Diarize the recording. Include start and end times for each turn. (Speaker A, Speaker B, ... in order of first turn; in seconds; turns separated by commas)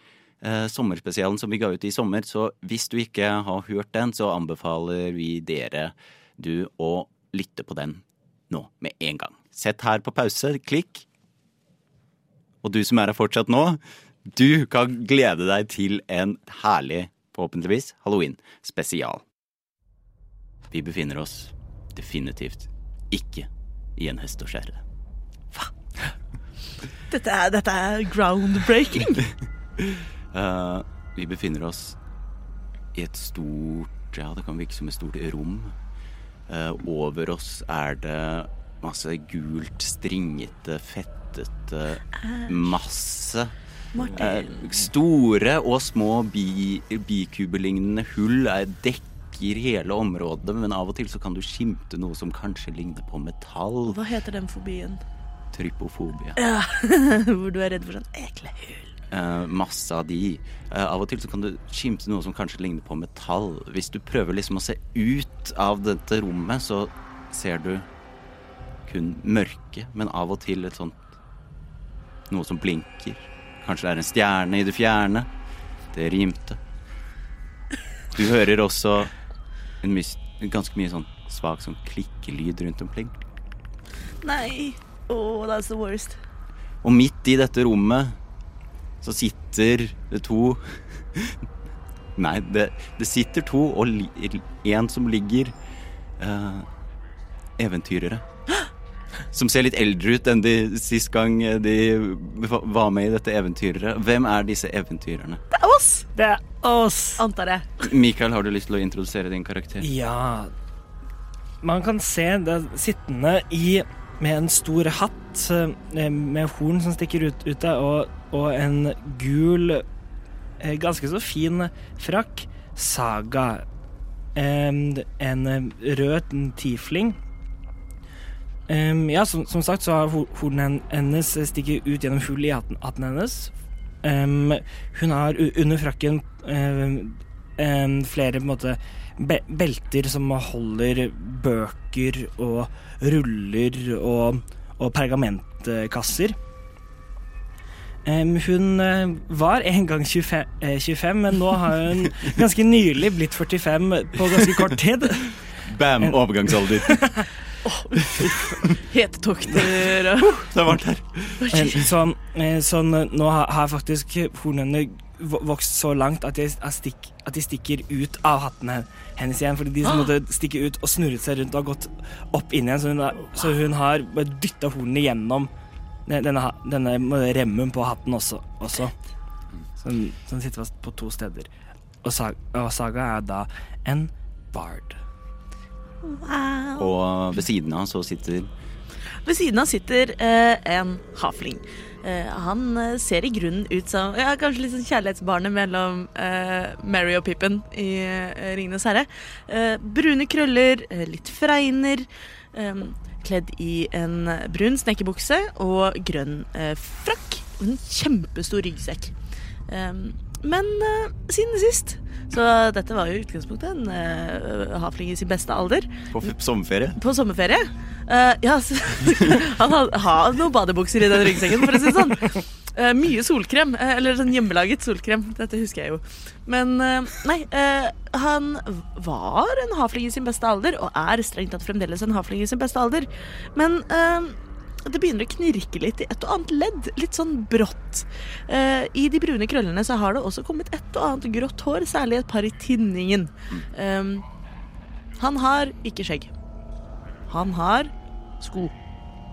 Speaker A: 0.4-11.1, Speaker A: 12.6-19.2, Speaker A: 20.7-24.8, Speaker B: 27.1-29.2, Speaker A: 29.8-32.0, Speaker A: 32.9-35.7, Speaker A: 36.5-54.0, Speaker B: 42.2-42.5, Speaker B: 43.9-44.7, Speaker B: 53.9-55.0, Speaker A: 55.5-56.4, Speaker B: 56.4-58.9, Speaker A: 59.1-67.9, Speaker A: 68.8-71.0, Speaker A: 72.3-75.3, Speaker A: 75.9-76.6, Speaker A: 78.1-79.1, Speaker A: 79.8-83.2, Speaker B: 84.2-86.2, Speaker A: 86.8-88.2, Speaker A: 89.0-91.5, Speaker A: 92.2-95.5, Speaker A: 96.2-96.7, Speaker A: 97.6-98.2, Speaker A: 99.3-105.4, Speaker B: 105.5-106.1, Speaker C: 106.2-107.2, Speaker B: 107.2-107.9, Speaker A: 107.8-109.9, Speaker C: 109.8-110.5, Speaker C: 111.6-119.8, Speaker C: 120.6-123.6, Speaker C: 124.3-127.2, Speaker C: 128.7-146.3, Speaker C: 148.0-155.4, Speaker A: 154.4-154.7, Speaker A: 155.6-157.1, Speaker C: 156.8-157.2, Speaker B: 157.6-160.4, Speaker A: 159.5-161.8, Speaker B: 161.4-161.8, Speaker C: 161.5-175.5, Speaker C: 176.1-178.9, Speaker C: 179.8-181.5, Speaker C: 182.0-185.0, Speaker B: 186.0-186.9, Speaker A: 186.8-188.5, Speaker B: 189.2-209.1, Speaker B: 209.7-216.1, Speaker A: 216.1-217.0, Speaker B: 217.0-244.2, Speaker B: 245.2-246.3, Speaker B: 247.3-248.7